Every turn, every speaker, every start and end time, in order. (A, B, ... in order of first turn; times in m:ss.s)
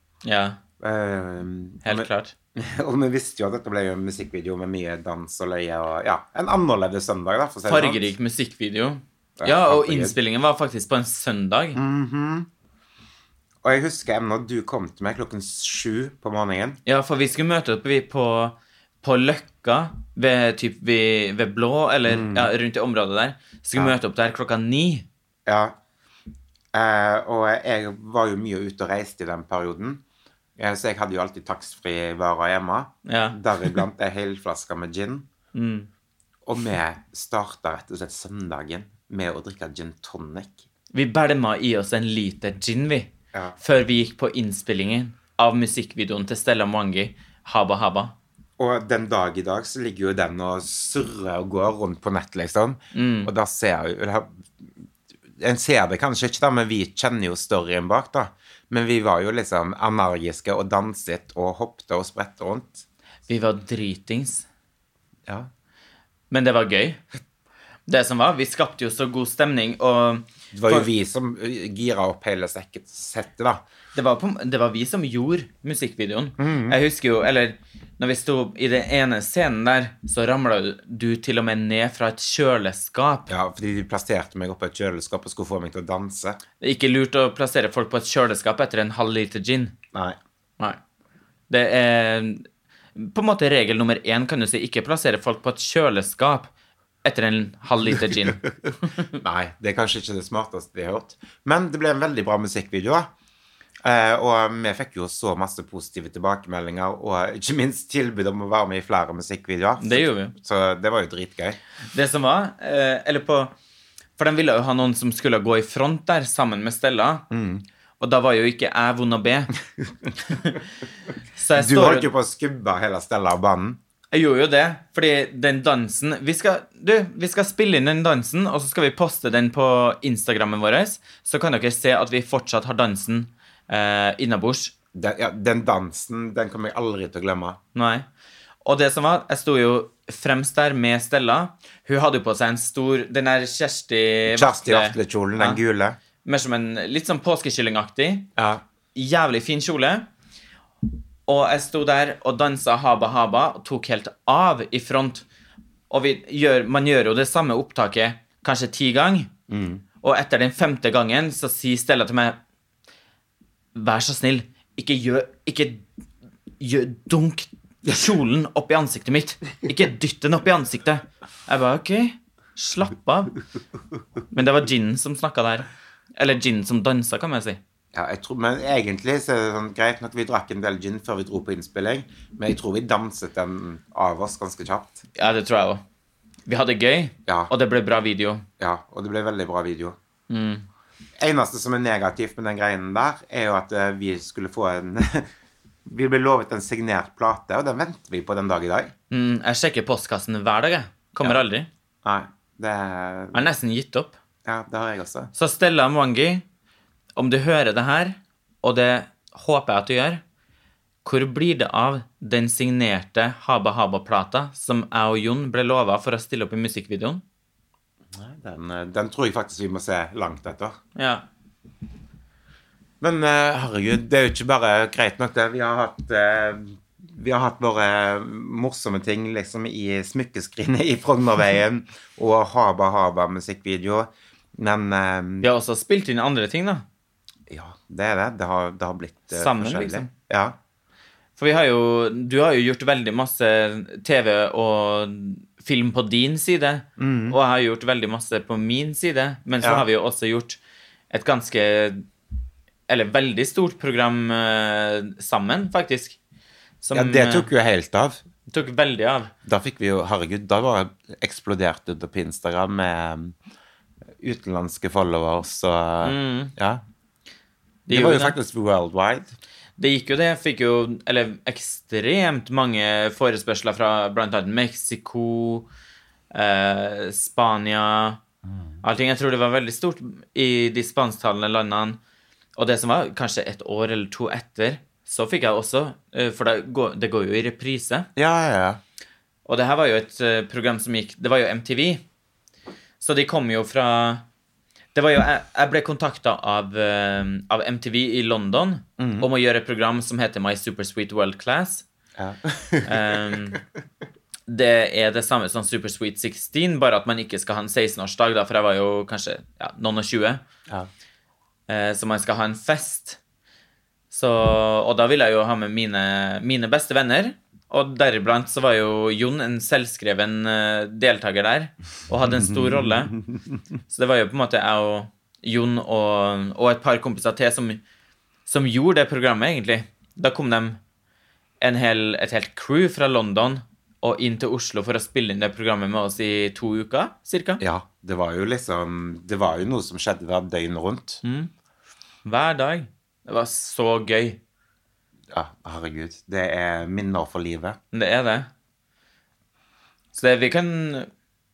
0:00.2-0:00.6 A
0:00.8-0:08.1 B
0:01.8-0:02.3 A
0:07.7-0:11.8 A
0:09.4-0:10.2 B
0:11.7-0:12.5 B
0:13.6-0:16.8 B
0:16.8-0:25.0 A
0:22.1-0:22.5 B
0:25.4-0:25.8 B
0:26.7-0:30.0 B
0:30.6-0:35.3 B
0:33.0-0:33.8 A
0:35.5-0:35.9 A
0:36.4-0:40.6 B
0:40.9-0:48.1 A
0:43.3-0:43.6 B
0:48.6-0:54.7 B
0:52.9-0:53.3 A
0:55.4-1:02.8 B
1:03.3-1:04.4 A
1:06.3-1:07.0 A
1:07.9-1:10.9 A
1:10.5-1:13.6 B
1:13.9-1:23.3 A
1:16.4-1:16.8 B
1:23.3-1:26.4 B
1:26.6-1:29.7 A
1:29.9-1:30.2 B
1:31.5-1:32.4 A
1:33.0-1:36.5 A
1:37.0-1:39.2 A
1:38.0-1:38.3 B
1:39.1-1:43.1 B
1:43.8-1:51.6 B
1:49.8-1:50.3 A
1:51.9-1:53.5 A
1:54.2-1:57.2 A
1:57.3-1:57.6 B
1:58.0-1:59.5 A
2:00.3-2:00.6 A
2:01.4-2:02.1 A
2:01.5-2:03.8 B
2:04.1-2:14.7 A
2:14.9-2:17.6 B
2:17.7-2:18.0 A
2:18.6-2:25.6 A
2:24.3-2:26.0 B
2:26.2-2:28.3 A
2:28.4-2:28.6 B
2:28.9-2:30.0 A
2:31.3-2:35.2 A
2:35.9-2:39.3 A
2:39.5-2:39.8 B
2:40.0-2:42.4 A
2:43.7-2:45.8 A
2:46.6-2:53.3 A
2:54.3-2:57.6 A
2:57.9-3:05.0 B
3:05.1-3:05.8 A
3:06.4-3:08.5 A
3:07.3-3:07.5 B
3:08.6-3:10.0 B
3:10.3-3:10.6 A
3:11.2-3:15.3 B
3:15.8-3:18.9 B
3:19.1-3:21.7 A
3:22.0-3:23.4 B
3:23.3-3:24.2 A
3:24.4-3:25.3 B
3:25.3-3:26.4 A
3:27.2-3:30.2 A
3:31.0-3:37.2 A
3:38.1-3:40.8 B
3:41.0-3:41.2 A
3:43.0-3:55.5 B
3:55.4-3:56.8 A
3:57.5-4:00.6 B
3:59.3-4:00.1 A
4:01.4-4:12.0 A
4:07.0-4:07.4 B
4:09.6-4:09.8 B
4:12.9-4:16.2 A
4:16.8-4:17.5 A
4:16.9-4:18.2 B
4:18.5-4:19.3 A
4:19.4-4:23.4 B
4:24.2-4:26.8 B
4:26.0-4:26.5 A
4:27.9-4:28.4 A
4:27.9-4:29.3 B
4:29.8-4:35.7 A
4:36.3-4:38.2 A
4:38.8-4:42.0 A
4:42.6-4:48.1 A
4:48.2-4:48.8 B
4:49.4-4:52.0 A
4:53.0-4:54.2 A
4:54.9-5:01.8 A
4:59.0-4:59.3 B
5:02.2-5:03.6 B
5:02.8-5:03.6 A
5:04.5-5:10.4 A
5:11.7-5:13.2 A
5:14.1-5:23.2 A
5:22.2-5:23.4 B
5:23.9-5:27.8 A
5:28.4-5:30.8 A
5:31.6-5:37.6 A
5:37.6-5:41.2 B
5:41.2-5:41.5 A
5:42.2-5:44.4 A
5:45.3-5:47.8 B
5:47.9-5:48.5 A
5:50.1-5:51.1 A